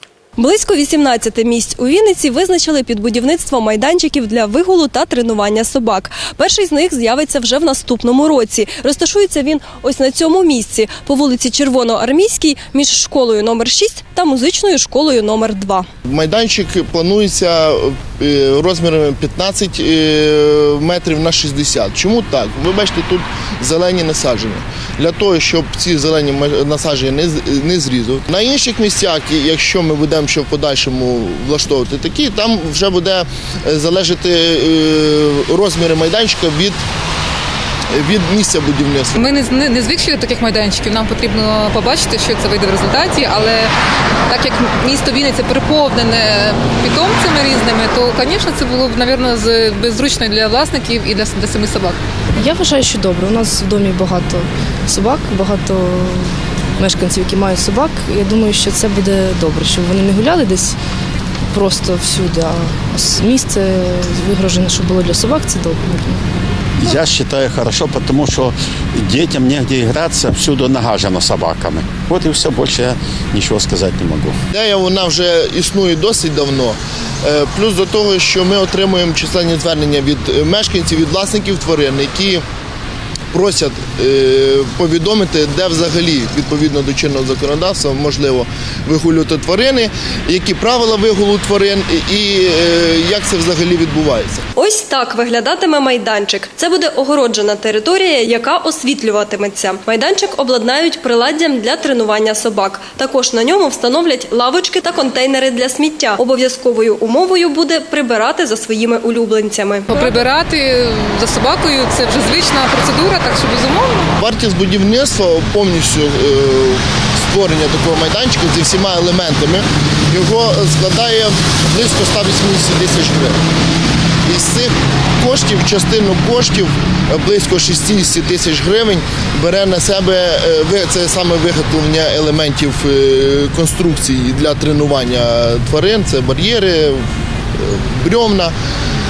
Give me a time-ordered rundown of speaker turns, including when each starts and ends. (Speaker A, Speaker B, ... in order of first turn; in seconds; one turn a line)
Speaker A: 0.4-15.9
Speaker B: 16.1-36.8
Speaker B: 37.9-39.3
Speaker C: 39.2-43.7
Speaker C: 44.3-52.0
Speaker D: 52.4-60.8
Speaker D: 61.5-66.2
Speaker E: 66.8-74.4
Speaker B: 74.5-82.4
Speaker B: 83.3-94.4
Speaker A: 94.6-110.2
Speaker C: 109.9-114.1
Speaker B: 114.2-123.4
Speaker B: 124.3-137.0
Speaker B: 137.6-138.5